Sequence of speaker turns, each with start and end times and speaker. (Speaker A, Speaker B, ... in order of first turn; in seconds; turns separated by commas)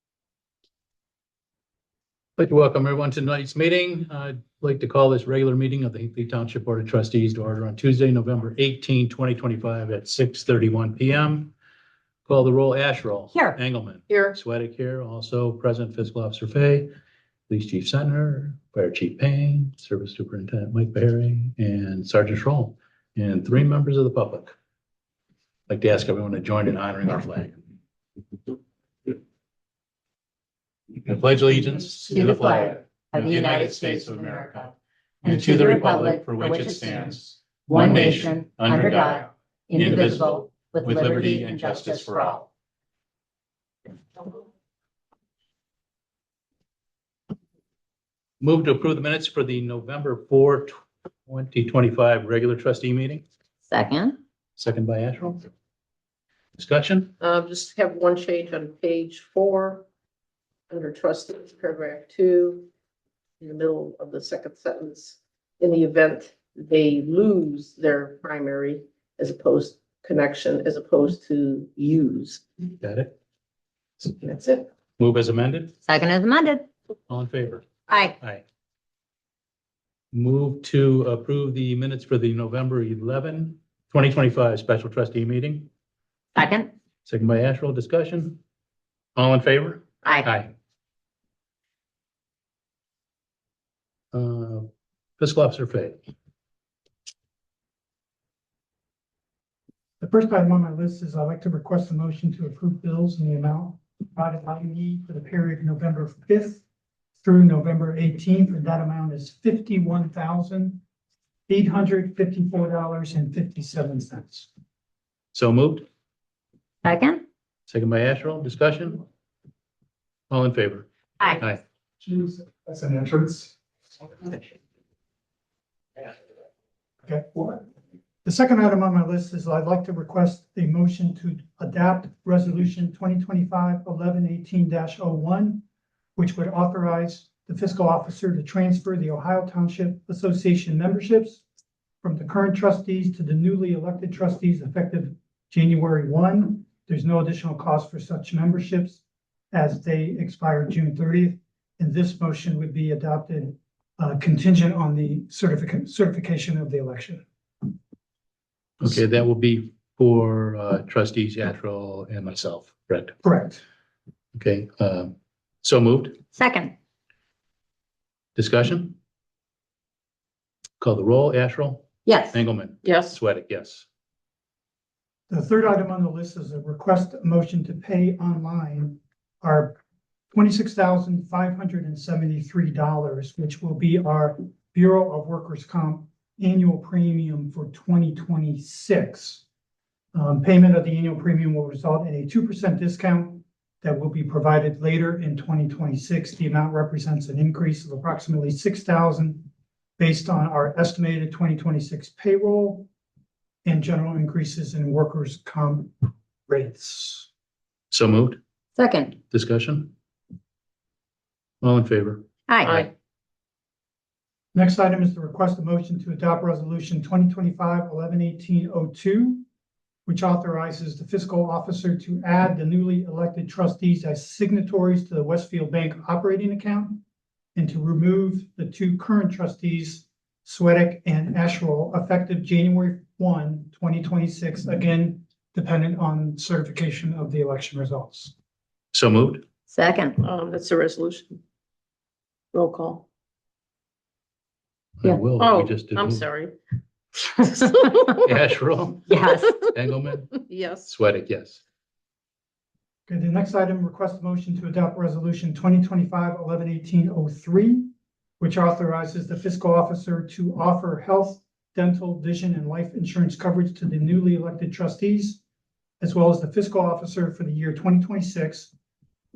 Speaker A: 2.4-11.5, Speaker A: 12.2-16.9, Speaker B: 14.1-14.4, Speaker A: 17.5-24.5, Speaker A: 25.7-27.6, Speaker A: 31.0-34.7, Speaker C: 32.1-34.7, Speaker C: 35.2-37.1, Speaker A: 35.2-42.4, Speaker C: 37.6-42.5, Speaker A: 48.4-50.7, Speaker A: 51.3-53.2, Speaker C: 53.7-54.2, Speaker A: 54.6-55.5, Speaker A: 56.6-57.1, Speaker B: 57.2-59.8, Speaker B: 60.7-62.7, Speaker B: 63.4-72.4, Speaker A: 72.8-73.1, Speaker B: 74.0-74.7, Speaker A: 75.0-75.8, Speaker C: 75.8-76.7, Speaker A: 77.1-78.4, Speaker C: 77.9-78.1, Speaker A: 80.1-85.7, Speaker C: 86.3-86.7, Speaker A: 87.0-88.4, Speaker A: 89.2-90.5, Speaker A: 94.1-94.7, Speaker A: 95.2-96.0, Speaker D: 100.0-106.6, Speaker D: 107.2-110.8, Speaker D: 111.5-114.5, Speaker A: 115.3-115.8, Speaker C: 116.8-117.2, Speaker A: 117.7-119.0, Speaker A: 120.3-120.9, Speaker D: 122.0-123.5, Speaker D: 127.0-127.7, Speaker D: 128.2-135.6, Speaker D: 136.2-141.4, Speaker D: 142.0-157.2, Speaker A: 158.8-163.1, Speaker D: 163.2-163.6, Speaker A: 164.3-166.2, Speaker C: 166.3-166.7, Speaker A: 168.3-168.9, Speaker A: 170.8-173.8, Speaker C: 172.0-172.4, Speaker B: 172.8-173.1, Speaker D: 175.3-179.8, Speaker D: 180.3-189.4, Speaker D: 190.1-202.9, Speaker D: 203.6-205.9, Speaker D: 206.5-207.3, Speaker A: 207.9-208.4, Speaker C: 208.8-209.2, Speaker A: 209.3-209.9, Speaker A: 211.6-212.2, Speaker C: 212.5-212.8, Speaker B: 212.6-212.9, Speaker D: 214.5-219.4, Speaker D: 220.1-227.0, Speaker D: 227.5-238.3, Speaker A: 238.9-239.4, Speaker C: 239.7-240.2, Speaker B: 240.2-241.4, Speaker B: 242.5-243.0, Speaker A: 245.0-246.3, Speaker B: 245.4-246.5, Speaker C: 247.4-248.1, Speaker B: 247.7-248.0, Speaker A: 248.2-251.6, Speaker C: 249.1-249.6, Speaker B: 250.5-250.9, Speaker D: 253.1-257.9, Speaker D: 258.4-265.4, Speaker D: 266.0-268.7